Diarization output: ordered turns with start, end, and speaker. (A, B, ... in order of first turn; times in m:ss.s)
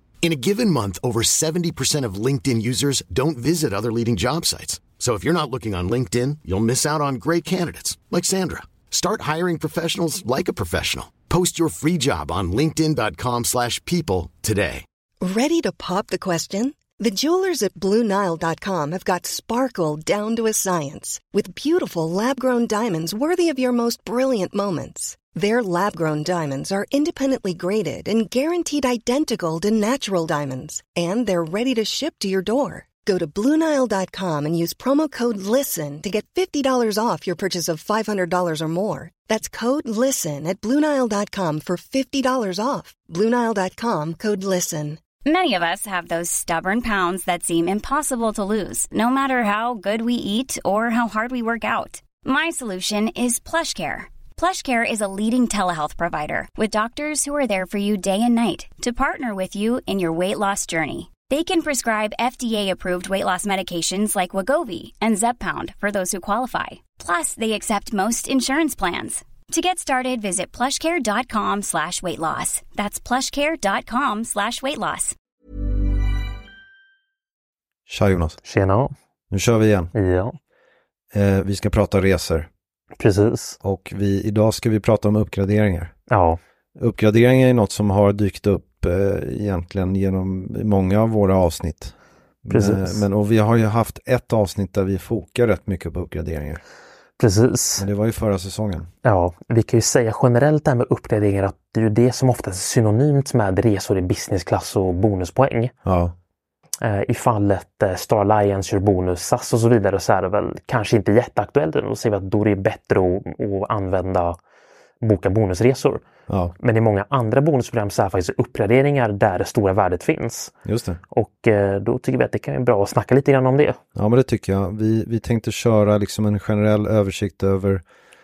0:00.2-0:14.8 A
0:15.2-0:45.0 B
0:45.2-1:15.2 C
1:17.9-1:18.4 D
1:18.4-1:18.9 E
1:19.3-1:19.9 D
1:19.9-1:20.4 E
1:21.1-1:22.5 D
1:23.0-1:23.6 E
1:23.6-1:25.9 D
1:26.1-1:26.4 E
1:26.8-1:36.6 D
1:32.5-1:33.0 E
1:37.2-1:37.9 E
1:37.8-1:38.9 D
1:39.0-1:45.7 E
1:45.8-1:46.2 D
1:46.8-1:54.4 E
1:55.0-1:56.0 E
1:56.3-1:56.6 D
1:56.6-2:00.5 E
2:00.6-2:01.0 D
2:01.1-2:03.8 E
2:04.0-2:07.8 D